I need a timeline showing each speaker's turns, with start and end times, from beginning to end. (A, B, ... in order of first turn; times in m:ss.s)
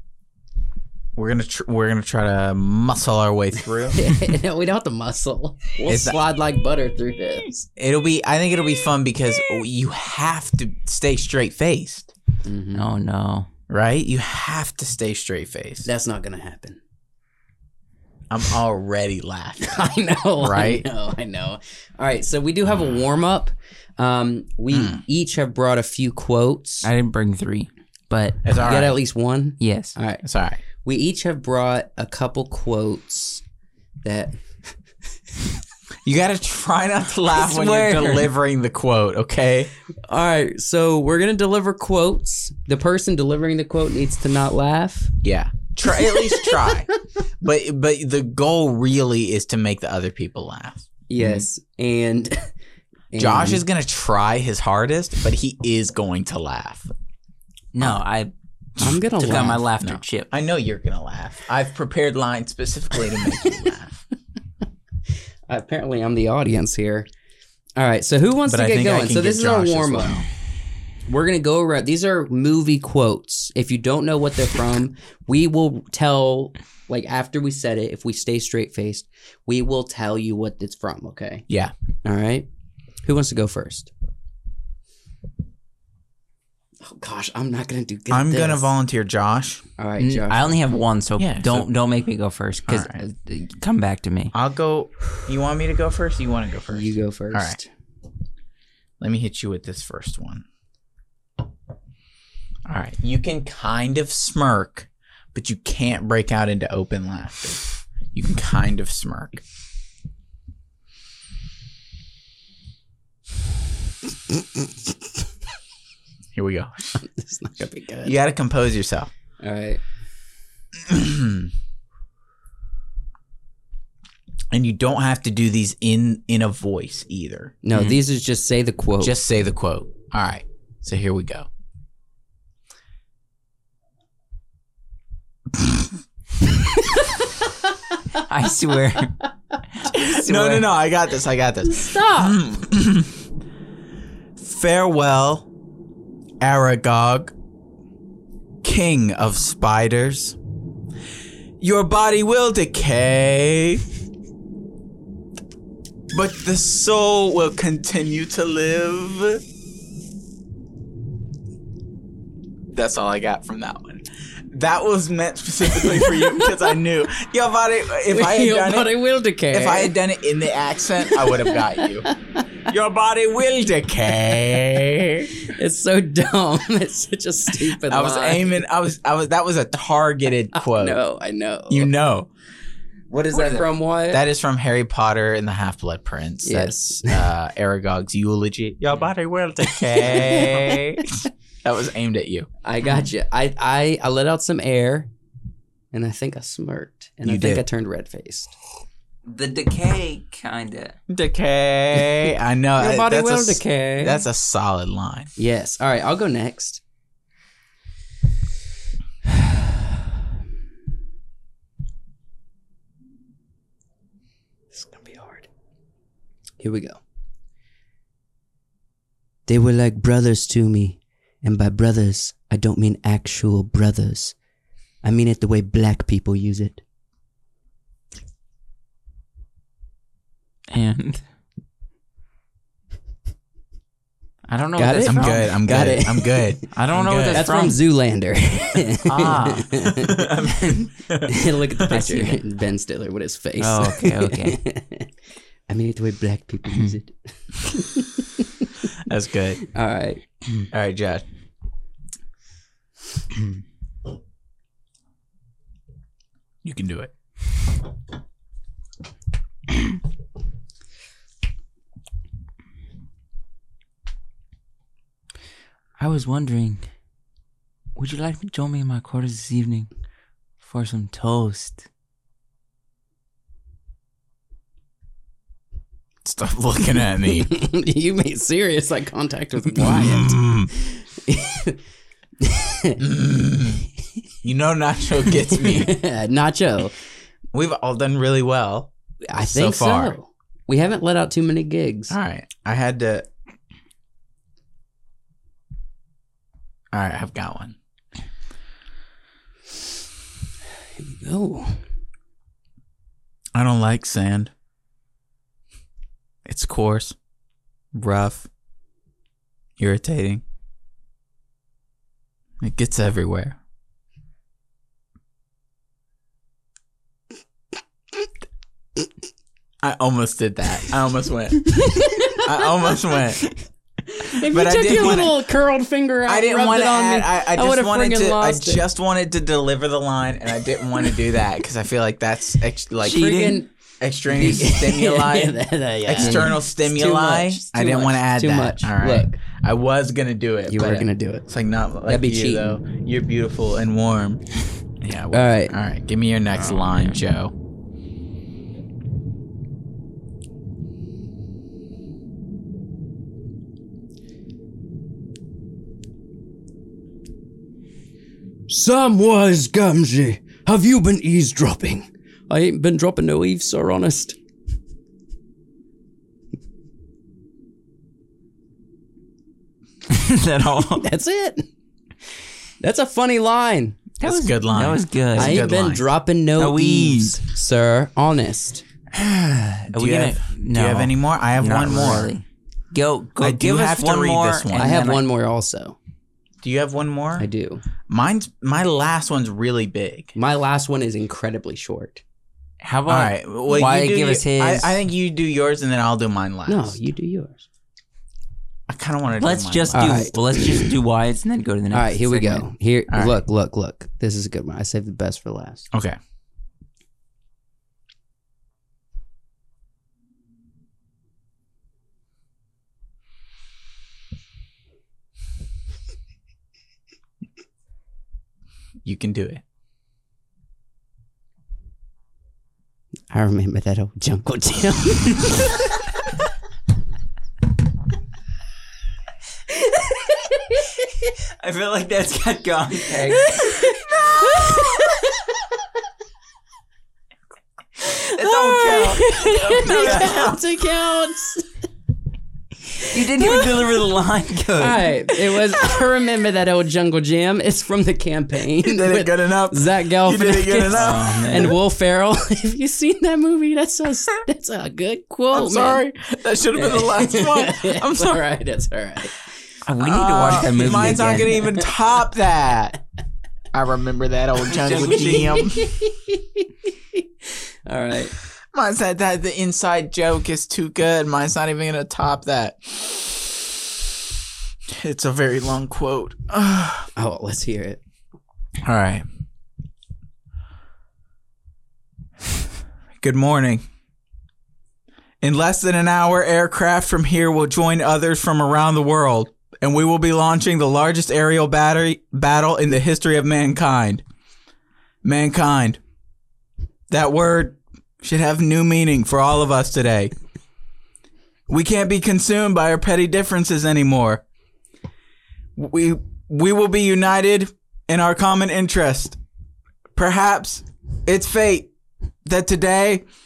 0:01.2-0:04.1 A
0:03.9-0:07.7 B
0:05.8-0:06.2 A
0:07.8-0:12.1 A
0:12.4-0:12.9 B
0:12.7-0:13.5 C
0:13.7-0:15.9 A
0:15.8-0:16.8 B
0:18.3-0:19.8 A
0:19.6-0:26.9 B
0:20.4-0:20.8 A
0:24.7-0:25.0 A
0:26.8-0:28.3 C
0:28.4-0:29.0 A
0:28.5-0:30.2 B
0:29.6-0:30.0 C
0:30.2-0:30.6 A
0:30.8-0:33.4 B
0:34.0-0:34.3 B
0:36.0-0:39.7 A
0:37.4-0:38.3 C
0:40.1-0:45.1 B
0:45.2-0:46.9 A
0:45.9-0:46.8 B
0:47.4-0:51.5 A
0:51.1-0:52.5 B
0:53.1-0:53.6 B
0:53.2-0:56.9 A
0:57.7-0:58.3 C
0:58.8-1:04.0 A
0:58.8-0:59.6 B
0:59.2-1:00.3 C
1:05.5-1:07.1 B
1:07.8-1:10.2 B
1:08.4-1:10.3 A
1:11.0-1:21.4 B
1:22.0-1:22.5 B
1:23.0-1:23.9 B
1:26.8-1:28.7 B
1:28.1-1:29.6 A
1:29.8-1:30.6 B
1:30.0-1:34.3 C
1:31.2-1:31.7 A
1:32.7-1:33.0 A
1:34.3-1:37.6 A
1:36.7-1:37.7 B
1:39.0-1:40.4 A
1:42.7-1:49.4 A
1:56.3-1:57.0 A
1:57.0-1:58.2 B
1:58.0-1:59.1 A
1:59.4-1:59.8 B
2:00.9-2:01.5 A
2:04.5-2:07.6 A
2:07.6-2:09.2 B
2:09.0-2:11.5 A
2:18.2-2:19.2 C
2:19.8-2:20.7 C
2:19.9-2:23.1 A
2:21.6-2:22.4 B
2:24.4-2:25.5 A
2:26.4-2:27.3 A
2:28.6-2:30.4 A
2:31.6-2:33.8 A
2:36.1-2:39.4 A
2:42.7-2:48.9 A
2:45.9-2:46.4 B
2:48.1-2:49.9 B
2:49.5-2:52.1 A
2:51.0-2:52.0 B
2:52.7-2:55.3 A
2:55.5-2:58.6 B
2:57.7-3:01.0 A
3:00.6-3:01.9 B
3:01.7-3:02.3 A
3:03.1-3:04.2 B
3:03.3-3:03.6 C
3:04.1-3:12.5 A
3:06.4-3:07.2 B
3:09.7-3:10.8 B
3:12.6-3:15.1 B
3:15.9-3:18.5 B
3:17.2-3:17.6 A
3:19.2-3:21.0 C
3:21.1-3:25.3 A
3:21.9-3:22.2 B
3:22.8-3:24.2 B
3:25.4-3:26.8 B
3:34.7-3:35.5 B
3:36.6-3:37.0 B
3:39.5-3:44.3 B
3:45.0-3:46.8 B
3:50.7-3:51.2 C
3:54.5-3:55.5 C
3:54.8-3:56.6 B
3:55.0-3:57.5 A
3:56.7-3:57.8 C
3:57.3-4:00.3 B
3:59.0-4:02.2 A
4:00.6-4:00.9 C
4:01.3-4:05.1 B
4:01.9-4:02.3 C
4:03.6-4:04.6 C
4:05.7-4:08.7 B
4:09.0-4:09.6 A
4:09.7-4:10.2 B
4:10.7-4:11.2 A
4:16.6-4:17.1 A
4:26.0-4:26.8 C
4:28.0-4:29.9 C
4:30.6-4:31.8 C
4:36.2-4:37.5 A
4:37.4-4:40.4 B
4:39.7-4:40.7 A
4:41.2-4:41.8 B
4:42.4-4:43.0 B
4:43.0-4:43.8 A
4:44.4-4:46.0 A
4:45.4-4:46.9 B
4:47.5-4:50.2 A
4:49.3-4:52.1 B
4:52.1-4:53.3 A
4:56.9-4:57.8 A
5:01.0-5:01.8 B
5:03.5-5:04.5 A
5:06.4-5:07.1 A
5:07.9-5:08.5 A
5:09.8-5:10.4 A
5:12.6-5:13.6 A
5:19.8-5:23.5 A
5:22.0-5:22.4 B
5:24.2-5:28.8 B
5:24.4-5:25.4 A
5:26.2-5:33.4 A
5:33.0-5:33.6 C
5:33.0-5:33.7 B
5:34.0-5:44.4 A
5:34.3-5:39.4 B
5:36.2-5:36.6 C
5:40.7-5:41.4 B
5:42.1-5:42.8 B
5:45.0-5:47.5 A
5:45.3-5:45.7 B
5:46.6-5:47.2 C
5:58.7-6:04.4 B
6:10.1-6:11.0 C
6:11.0-6:11.7 B
6:12.8-6:14.0 B
6:14.2-6:15.6 C
6:14.2-6:16.0 A
6:15.3-6:18.8 B
6:16.6-6:17.4 C
6:19.1-6:25.2 C
6:19.9-6:22.3 A
6:23.4-6:25.1 A
6:24.8-6:26.0 B
6:26.6-6:27.5 A
6:27.4-6:27.8 B
6:28.1-6:30.4 A
6:30.4-6:32.2 B
6:32.8-6:35.0 C
6:33.1-6:37.0 A
6:36.7-6:37.6 B
6:38.9-6:40.4 A
6:39.4-6:42.6 C
6:39.9-6:40.3 B
6:41.9-6:45.9 B
6:43.1-6:43.4 A
6:45.9-6:46.2 A
6:59.0-6:59.6 A
7:03.3-7:05.8 B
7:11.6-7:13.8 C
7:13.2-7:15.2 B
7:18.0-7:21.6 B
7:18.3-7:20.5 C
7:19.8-7:20.6 A
7:23.0-7:25.1 C
7:23.4-7:23.8 B
7:24.8-7:36.0 B
7:28.8-7:31.7 A
7:30.9-7:31.8 C
7:35.5-7:38.4 A
7:36.7-7:39.4 B
7:39.8-7:41.6 C
7:40.0-7:43.0 A
7:40.5-7:41.9 B
7:43.7-7:45.9 A
7:44.7-7:45.6 C
7:45.0-7:47.2 B
7:47.8-7:48.4 B
7:48.7-7:53.5 A
7:55.0-7:57.1 A
7:57.2-7:58.0 B
7:58.8-7:59.2 A
8:03.2-8:03.8 A
8:05.4-8:14.2 A
8:15.2-8:16.0 A
8:17.1-8:20.3 A
8:21.7-8:24.4 A
8:25.8-8:29.4 A
8:30.1-8:31.9 A
8:32.4-8:33.2 A